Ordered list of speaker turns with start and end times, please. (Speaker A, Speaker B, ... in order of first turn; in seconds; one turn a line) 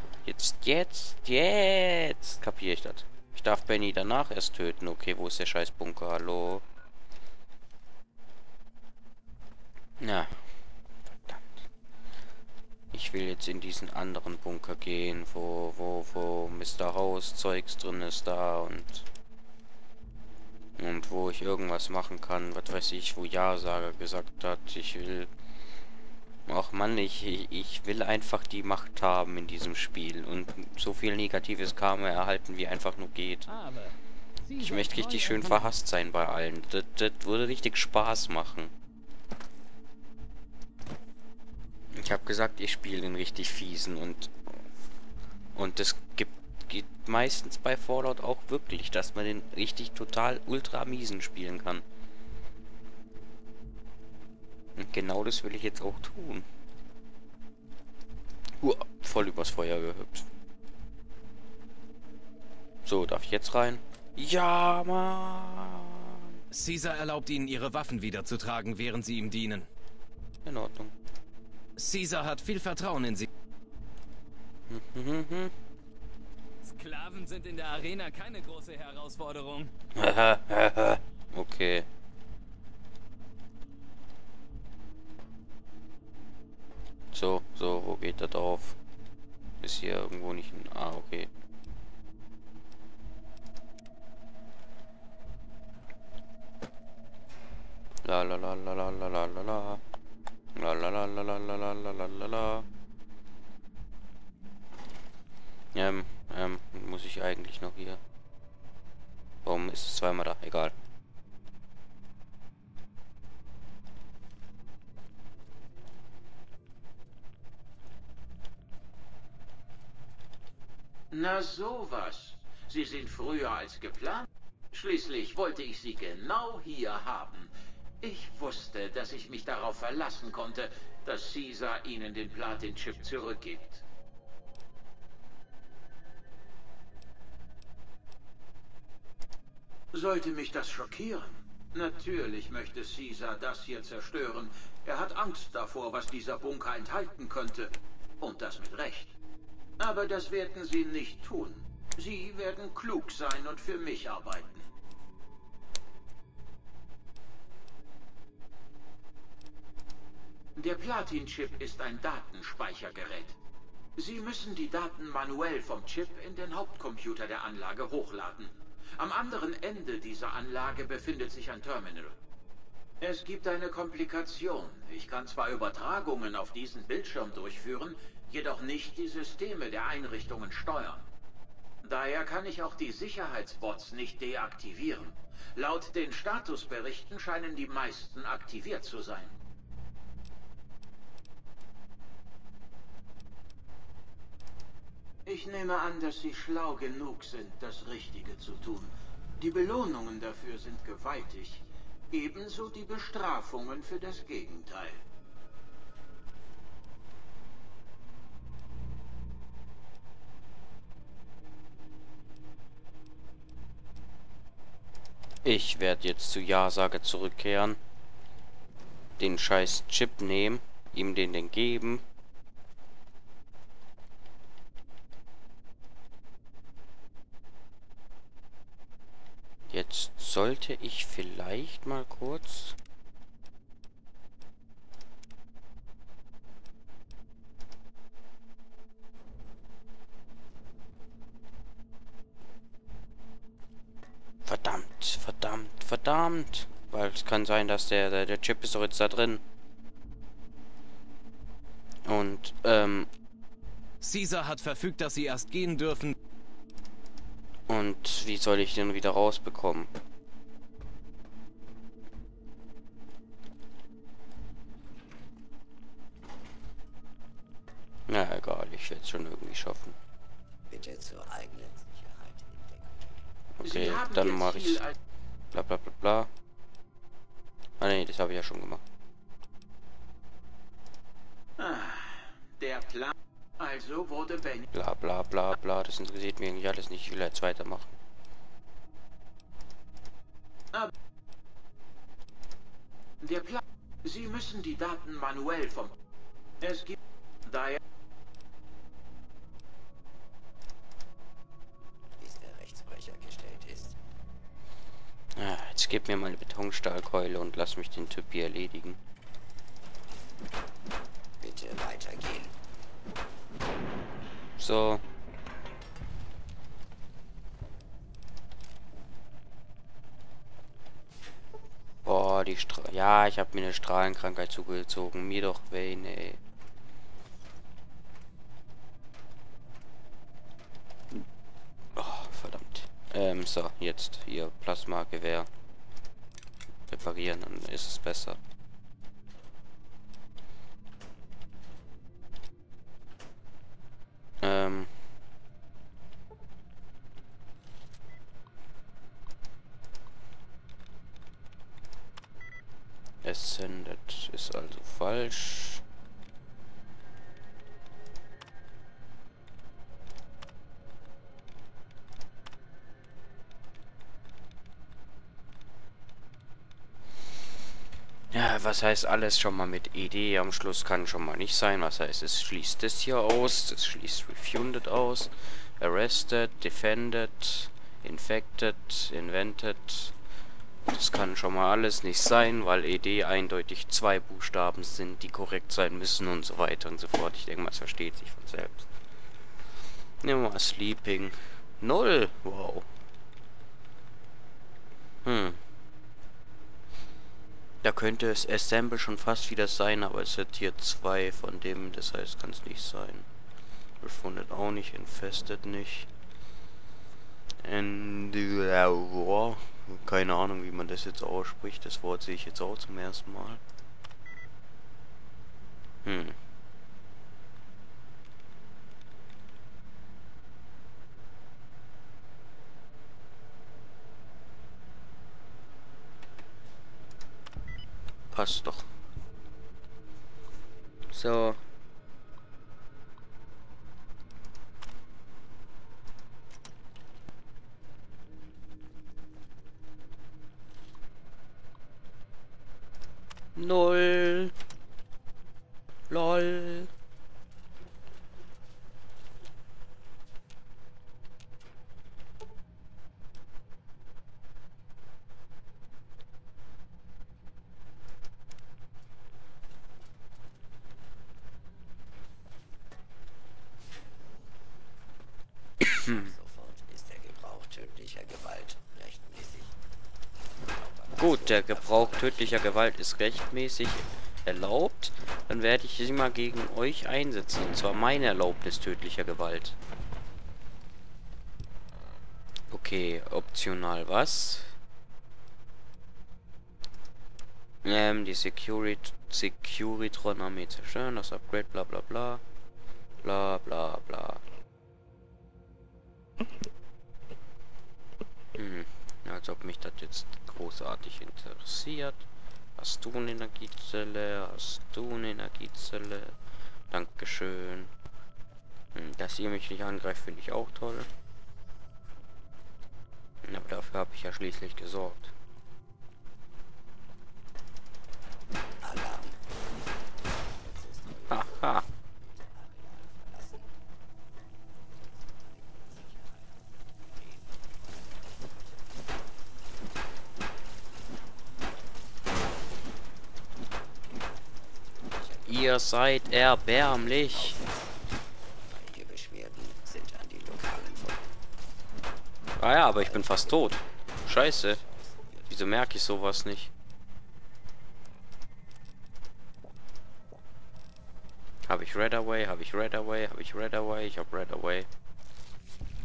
Speaker A: 0.2-6.6
Speaker A: 10.0-10.6
Speaker A: 11.3-11.6
Speaker A: 12.9-19.1
Speaker A: 20.8-25.3
Speaker A: 26.5-33.5
Speaker B: 33.5-35.7
Speaker A: 34.6-38.7
Speaker A: 42.0-44.3
Speaker A: 45.5-51.8
Speaker A: 54.8-56.5
Speaker A: 58.6-60.3
Speaker A: 62.9-66.3
Speaker C: 66.5-69.7
Speaker A: 70.5-70.9
Speaker C: 71.8-73.3
Speaker A: 74.7-75.5
Speaker B: 76.6-79.7
Speaker A: 80.0-81.9
Speaker A: 87.1-88.8
Speaker A: 89.6-91.3
Speaker A: 98.0-99.8
Speaker A: 100.5-102.7
Speaker A: 105.7-108.0
Speaker A: 109.5-110.8
Speaker D: 121.1-133.8
Speaker D: 139.9-149.1
Speaker D: 149.8-154.7
Speaker D: 160.6-163.4
Speaker D: 164.0-172.2
Speaker D: 173.0-181.0
Speaker D: 181.8-189.4
Speaker D: 195.3-205.0
Speaker A: 215.4-217.8
Speaker A: 219.2-222.0
Speaker A: 229.7-232.8
Speaker A: 244.4-249.4
Speaker A: 252.1-253.1
Speaker C: 254.0-256.1
Speaker A: 257.7-259.9
Speaker A: 268.1-270.0
Speaker E: 270.7-273.0
Speaker A: 273.6-274.8
Speaker D: 273.6-274.9
Speaker A: 275.5-276.3
Speaker A: 277.8-278.8
Speaker D: 281.6-284.7
Speaker A: 284.7-288.0
Speaker D: 293.2-295.9
Speaker D: 296.6-297.8
Speaker E: 302.2-303.9
Speaker A: 305.4-309.0
Speaker E: 311.4-312.5
Speaker A: 314.6-315.0
Speaker A: 322.1-326.4
Speaker A: 332.0-335.5
Speaker A: 336.9-338.4
Speaker A: 344.4-344.9
Speaker A: 353.2-355.8
Speaker A: 368.3-380.1
Speaker A: 380.9-388.9
Speaker A: 390.2-392.9
Speaker A: 395.2-395.6
Speaker A: 397.8-403.3
Speaker A: 404.0-406.1
Speaker A: 407.6-413.6
Speaker A: 416.1-416.4
Speaker A: 428.3-428.9
Speaker A: 431.1-431.6
Speaker A: 443.6-444.5
Speaker A: 446.1-446.9
Speaker E: 465.8-469.7
Speaker E: 470.7-472.6
Speaker A: 471.2-479.8
Speaker A: 482.7-484.8
Speaker A: 487.8-492.4
Speaker A: 493.2-494.4
Speaker A: 498.6-502.3
Speaker A: 502.8-506.4
Speaker A: 506.9-507.9
Speaker A: 508.9-511.1
Speaker A: 513.4-515.3
Speaker E: 518.8-519.4
Speaker E: 520.6-523.7
Speaker A: 521.3-521.8
Speaker E: 525.2-527.6
Speaker E: 535.2-535.7
Speaker A: 535.5-537.6
Speaker E: 536.8-537.9
Speaker E: 538.6-541.2
Speaker A: 542.6-544.8
Speaker E: 543.0-543.8
Speaker E: 544.3-545.6
Speaker A: 545.5-546.7
Speaker A: 551.7-554.9